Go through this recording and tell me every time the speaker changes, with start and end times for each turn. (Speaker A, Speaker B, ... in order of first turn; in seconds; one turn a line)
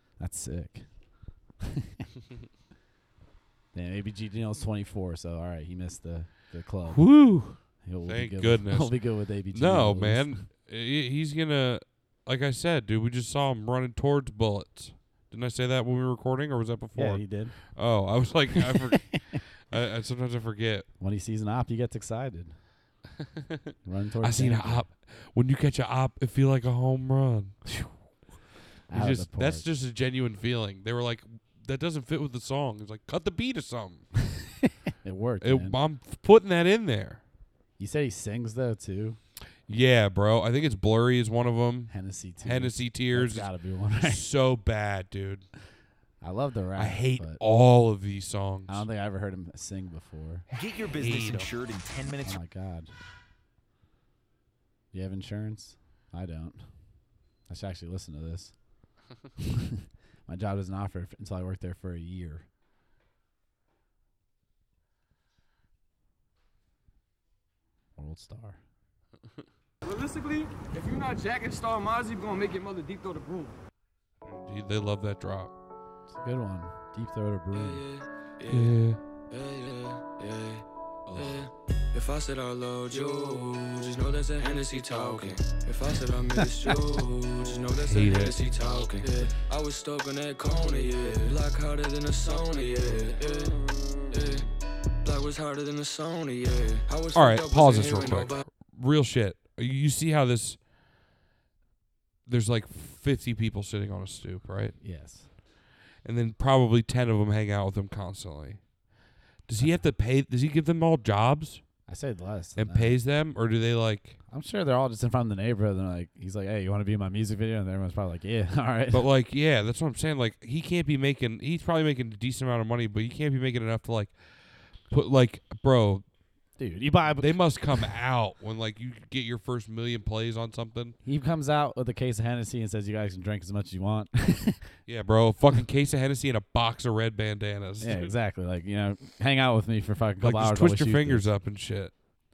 Speaker A: 0.1-2.0
Speaker A: 3.7-10.4
Speaker B: 6.9-20.9
Speaker A: 16.9-18.0
Speaker A: 18.6-19.4
Speaker A: 21.0-22.6
Speaker A: 23.8-24.9
Speaker B: 24.2-27.6
Speaker A: 27.7-28.0
Speaker A: 28.9-29.7
Speaker B: 28.9-34.1
Speaker A: 35.0-35.8
Speaker B: 35.4-37.2
Speaker A: 37.8-39.2
Speaker B: 39.6-45.5
Speaker A: 41.9-44.2
Speaker A: 46.2-47.4
Speaker B: 46.8-48.9
Speaker A: 48.7-50.5
Speaker C: 50.5-52.4
Speaker B: 51.0-51.5
Speaker A: 52.2-52.9
Speaker A: 54.9-56.7
Speaker A: 57.5-58.5
Speaker A: 60.2-62.5
Speaker A: 68.0-68.6
Speaker D: 69.8-73.6
Speaker B: 74.2-75.5
Speaker A: 76.1-77.8
Speaker E: 77.5-78.8
Speaker B: 78.5-79.0
Speaker E: 79.3-94.5
Speaker B: 81.1-81.4
Speaker B: 87.8-88.4
Speaker E: 95.0-98.4
Speaker B: 97.1-100.6
Speaker B: 102.3-104.8
Speaker A: 104.8-105.3
Speaker B: 106.0-108.7
Speaker B: 109.4-111.6
Speaker A: 109.6-109.8
Speaker A: 111.9-113.0
Speaker B: 112.5-114.2
Speaker A: 114.3-119.0
Speaker B: 118.9-126.0
Speaker A: 126.6-127.9
Speaker B: 127.2-130.9
Speaker A: 131.0-134.7
Speaker B: 134.9-138.1
Speaker A: 137.8-141.3
Speaker B: 140.2-141.9